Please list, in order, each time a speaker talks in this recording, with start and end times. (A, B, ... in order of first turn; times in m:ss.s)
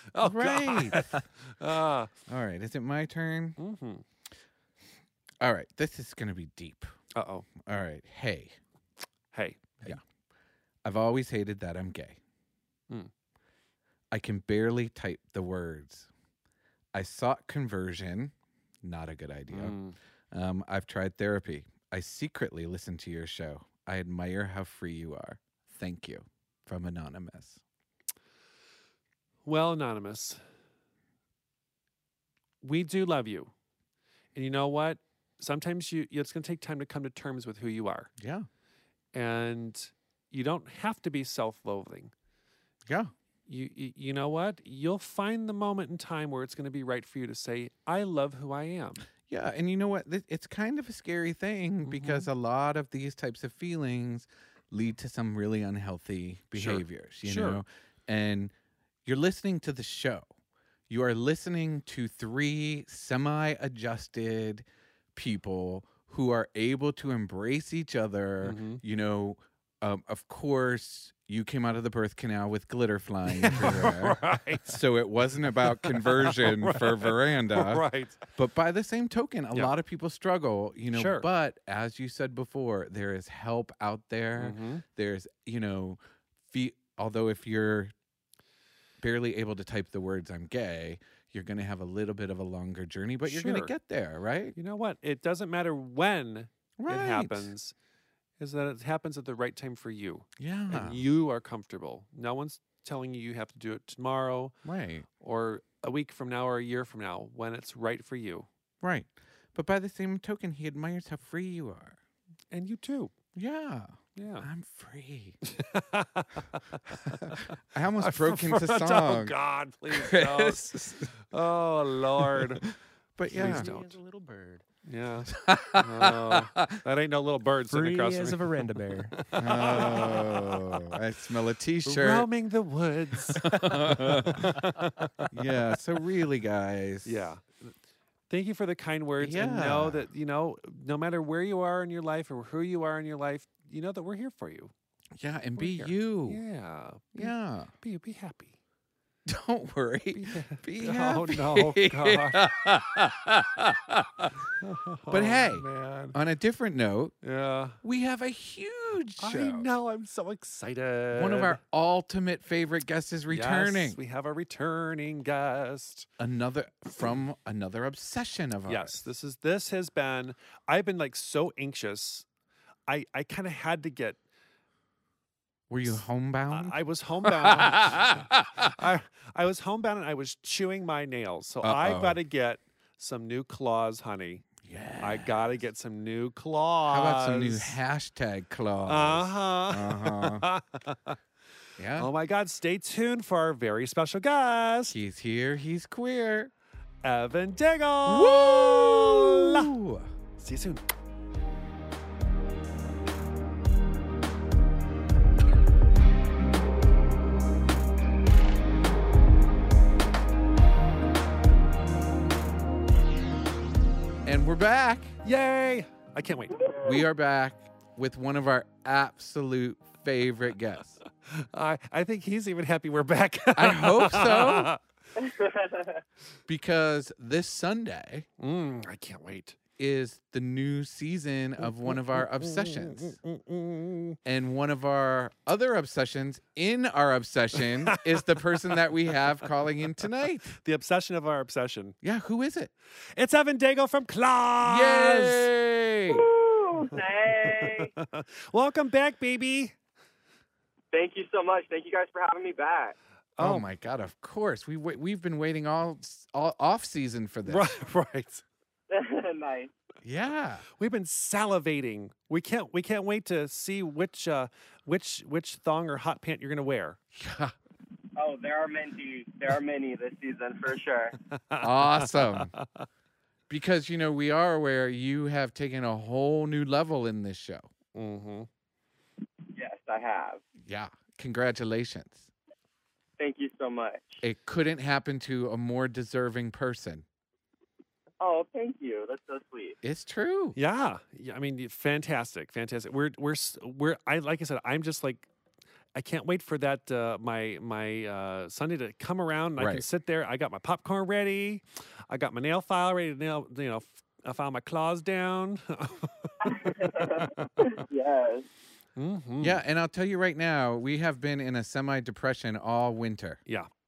0:00.1-0:02.1 A
0:00.2-0:01.0 B
0:02.3-0:03.6 B
0:03.6-0:04.0 A
0:05.4-0:06.9 B
0:07.1-0:07.5 A
0:07.6-0:08.6 B
0:09.3-0:09.6 A
0:10.8-0:12.2 B
0:14.1-0:16.1 B
0:16.9-0:19.8 B
0:19.5-0:20.0 A
0:20.3-0:27.6 B
0:29.4-0:30.4 A
0:32.6-0:33.5 A
0:34.3-0:38.1 A
0:38.2-0:38.5 B
0:39.1-0:42.1 A
0:42.9-0:43.1 B
0:43.5-0:49.0 A
0:49.3-0:58.5 B
0:51.8-0:52.3 A
0:56.5-0:57.6 A
0:59.0-1:00.3 B
1:00.9-1:26.0 B
1:08.4-1:08.8 A
1:13.3-1:14.8 A
1:15.8-1:18.2 A
1:20.9-1:21.3 A
1:24.4-1:24.8 A
1:26.5-1:27.9 B
1:29.0-1:34.5 B
1:33.2-1:33.7 A
1:34.5-1:37.7 A
1:36.8-1:37.5 B
1:38.4-1:44.6 A
1:40.4-1:41.0 B
1:44.6-1:45.0 B
1:45.2-1:48.5 A
1:48.8-1:52.0 B
1:52.5-1:53.1 A
1:53.3-1:55.4 B
1:54.1-1:54.5 A
1:55.4-2:02.6 A
1:57.2-1:59.3 B
1:59.9-2:01.1 B
2:02.2-2:03.7 B
2:03.3-2:04.0 A
2:03.3-2:04.6 C
2:04.8-2:08.5 A
2:05.3-2:06.8 B
2:07.7-2:09.2 C
2:09.2-2:10.8 A
2:09.4-2:12.3 B
2:11.8-2:15.3 A
2:13.4-2:14.5 B
2:13.7-2:14.6 C
2:15.3-2:17.3 B
2:17.0-2:17.7 A
2:18.3-2:24.7 A
2:19.2-2:20.0 B
2:25.2-2:26.4 B
2:25.6-2:28.6 A
2:27.1-2:27.7 B
2:29.2-2:34.4 B
2:30.1-2:32.5 A
2:34.6-2:36.2 A
2:35.1-2:37.2 B
2:37.2-2:37.8 A
2:37.8-2:39.7 B
2:39.2-2:41.6 A
2:41.1-2:44.0 B
2:43.3-2:46.1 A
2:46.2-2:49.1 B
2:48.7-2:52.2 A
2:52.9-2:54.2 A
2:55.7-2:58.7 B
2:56.5-3:04.5 A
3:01.6-3:02.2 B
3:04.6-3:05.3 B
3:05.0-3:07.8 A
3:06.9-3:10.4 B
3:08.8-3:11.2 A
3:11.8-3:12.1 B
3:12.0-3:15.0 A
3:14.9-3:16.5 B
3:17.0-3:19.7 A
3:18.0-3:20.1 B
3:20.4-3:20.8 A
3:34.2-3:35.1 B
3:35.2-3:36.7 A
3:36.8-3:41.0 B
3:41.2-3:44.8 A
3:43.6-3:44.7 B
3:45.2-3:46.0 D
3:46.5-3:48.3 B
3:48.4-3:49.6 A
3:49.8-3:53.2 B
3:51.8-3:54.2 A
3:54.2-4:00.6 B
3:57.6-3:58.8 A
4:00.6-4:02.0 A
4:02.0-4:02.7 B
4:03.0-4:05.5 A
4:04.6-4:06.3 B
4:06.1-4:07.9 D
4:06.9-4:09.7 A
4:10.9-4:13.0 D
4:13.4-4:13.7 A
4:13.4-4:17.7 B
4:17.4-4:18.4 A
4:18.9-4:19.7 D
4:20.0-4:20.6 B
4:20.8-4:27.0 A
4:27.1-4:27.5 B
4:28.2-4:31.1 D
4:31.3-4:32.8 A
4:31.6-4:32.5 B
4:33.5-4:37.7 B
4:37.9-4:38.5 A
4:39.5-4:40.4 D
4:40.6-4:42.3 B
4:43.2-4:44.2 D
4:44.2-4:47.0 B
4:48.2-4:49.8 D
4:49.8-4:50.6 B
4:50.6-4:55.3 A
4:55.9-5:07.4 A
4:59.6-4:59.8 B
5:06.4-5:08.5 D
5:09.0-5:09.6 A
5:09.4-5:13.4 B